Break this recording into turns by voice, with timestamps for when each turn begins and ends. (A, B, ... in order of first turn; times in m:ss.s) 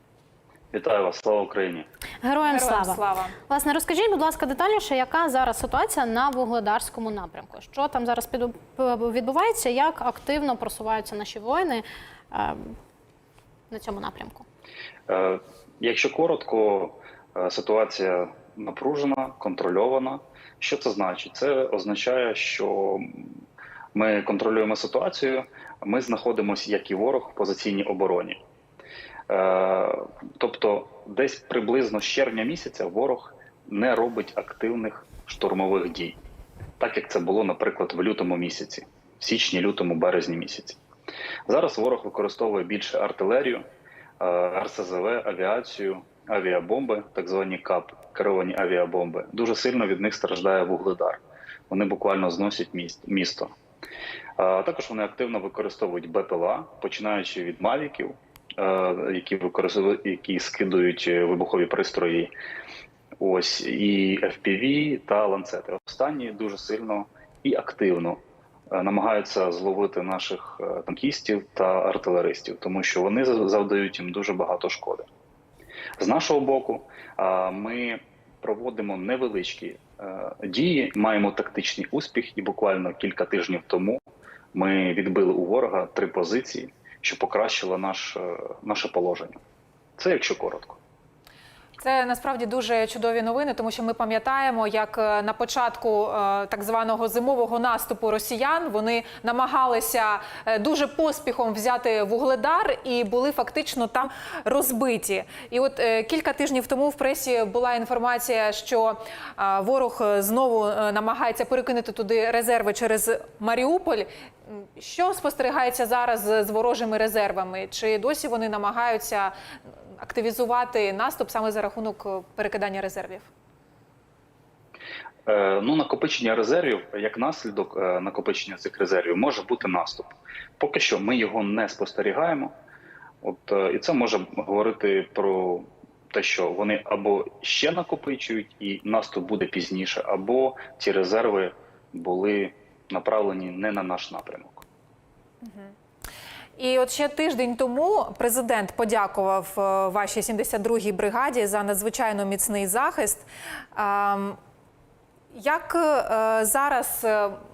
0:00.7-0:01.9 A
0:02.2-0:12.7 B
0:02.4-0:03.4 C
0:13.7-0:14.4 B
0:15.1-0:23.3 A
0:23.9-0:28.4 A
0:29.3-0:36.2 A
0:36.8-0:40.8 A
0:41.5-0:43.6 A
0:44.2-0:53.5 A
0:54.4-1:02.3 A
1:03.2-1:15.1 A
1:16.0-1:24.0 A
1:24.5-1:29.4 A
1:30.0-1:30.8 A
1:31.8-1:59.3 C
2:00.0-2:03.3 C
2:05.3-2:12.5 A
2:13.2-2:24.6 A
2:25.4-2:25.7 C
2:26.6-2:34.4 C
2:35.3-2:37.4 C